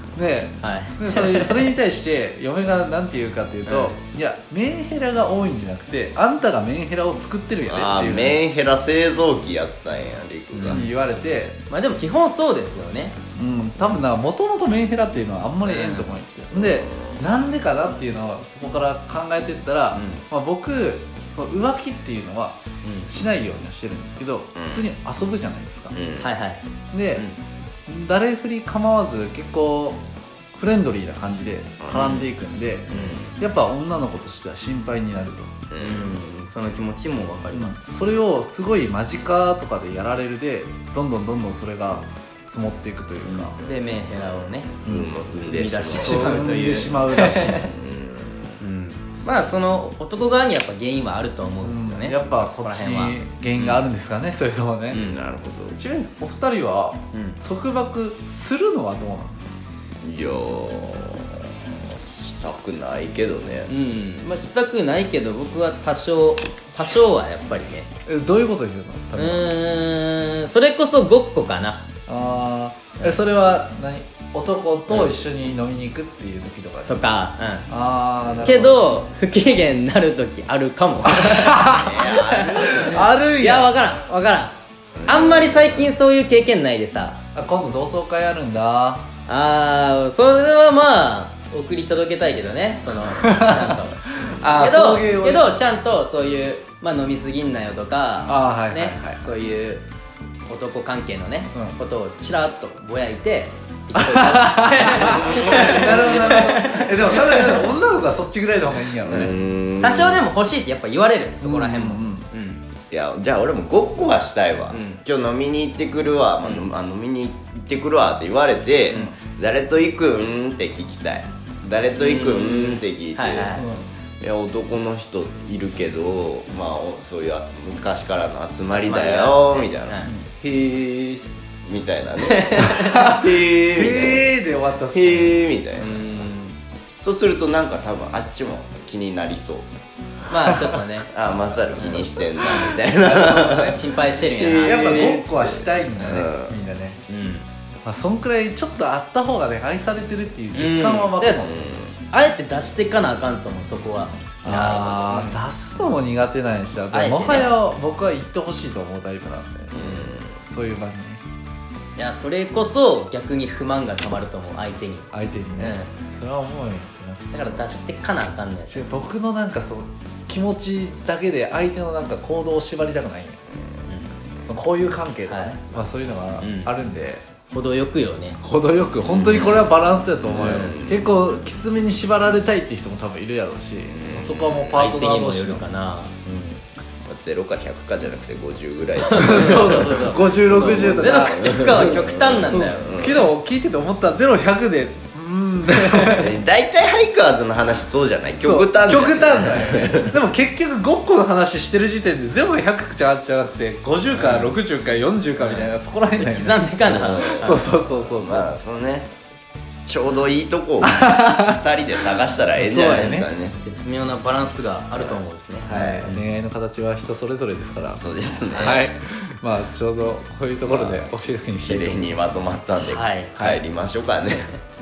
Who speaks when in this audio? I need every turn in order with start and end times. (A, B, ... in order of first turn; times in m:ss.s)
0:00.2-0:08.4 A
0:00.6-0:01.7 B
0:03.7-0:04.0 B
0:07.7-0:10.9 C
0:10.5-0:10.9 B
0:10.7-0:11.6 A
0:11.7-0:13.2 B
0:13.4-0:26.0 A
0:15.6-0:16.1 B
0:16.5-0:17.2 C
0:19.9-0:20.2 B
0:22.8-0:23.1 B
0:24.6-0:24.9 C
0:25.9-0:26.3 C
0:26.2-0:26.6 B
0:26.9-0:27.2 A
0:27.9-0:35.6 A
0:31.8-0:32.3 C
0:32.9-0:33.3 C
0:35.7-0:36.2 C
0:35.8-0:37.8 B
0:37.5-0:43.5 A
0:43.2-0:44.7 B
0:44.1-0:46.7 C
0:44.8-0:45.3 A
0:45.3-0:47.7 B
0:45.9-0:47.8 A
0:47.6-0:48.6 C
0:48.6-0:53.2 B
0:51.6-0:55.1 A
0:53.6-0:53.9 C
0:54.9-0:55.2 B
0:54.9-0:55.8 C
0:55.7-0:59.5 A
0:57.1-0:57.4 B
1:00.0-1:03.7 C
1:03.7-1:07.9 B
1:08.1-1:09.6 A
1:09.2-1:11.9 B
1:12.1-1:17.0 A
1:16.9-1:17.7 B
1:17.7-1:18.8 A
1:18.2-1:18.8 C
1:18.4-1:27.2 B
1:21.2-1:22.1 A
1:21.7-1:23.1 C
1:22.8-1:23.7 A
1:25.0-1:25.9 C
1:27.4-1:29.1 A
1:29.3-1:39.9 B
1:33.2-1:35.5 A
1:38.3-1:39.2 A
1:40.5-1:47.7 B
1:44.0-1:49.4 A
1:45.0-1:46.1 C
1:49.0-1:50.2 C
1:49.8-1:52.6 B
1:51.4-1:52.2 A
1:52.9-2:03.7 C
1:54.7-1:55.0 B
2:02.0-2:03.7 B
2:03.6-2:03.8 A
2:04.2-2:14.3 C
2:08.7-2:10.1 B
2:12.2-2:13.2 B
2:12.7-2:15.4 A
2:14.9-2:16.2 C
2:15.8-2:16.6 B
2:17.0-2:19.7 C
2:20.3-2:21.1 B
2:20.4-2:20.8 A
2:21.1-2:26.6 C
2:21.8-2:22.1 B
2:21.8-2:23.8 A
2:23.7-2:25.2 B
2:24.6-2:27.0 A
2:26.0-2:26.2 B
2:27.1-2:27.5 B
2:27.8-2:31.5 A
2:30.5-2:31.5 B
2:31.4-2:32.0 C
2:32.1-2:35.4 B
2:34.4-2:41.2 A
2:36.9-2:37.5 B
2:39.7-2:40.4 C
2:42.0-2:46.0 B
2:45.1-2:47.3 A
2:47.3-2:48.9 B
2:48.7-2:53.4 A
2:53.9-2:54.1 B
2:54.4-2:57.2 A
2:55.3-2:55.8 B
2:56.4-2:56.7 B
2:57.5-2:58.4 B
2:58.4-3:05.7 A
2:59.0-3:01.1 C
3:00.4-3:00.7 B
3:03.9-3:04.9 C
3:04.7-3:06.6 B
3:07.1-3:13.3 C
3:08.9-3:13.0 B
3:09.1-3:16.3 A
3:16.1-3:20.2 C
3:18.4-3:28.6 A
3:24.2-3:24.5 B
3:25.4-3:27.7 B
3:26.9-3:29.1 C
3:29.9-3:33.6 C
3:30.8-3:31.6 A
3:32.6-3:33.3 A
3:33.6-3:36.2 B
3:35.0-3:35.2 C
3:35.7-3:38.0 A
3:37.8-3:38.9 C
3:38.5-3:38.9 B
3:38.6-3:42.1 A
3:40.6-3:44.6 C
3:42.9-3:43.6 B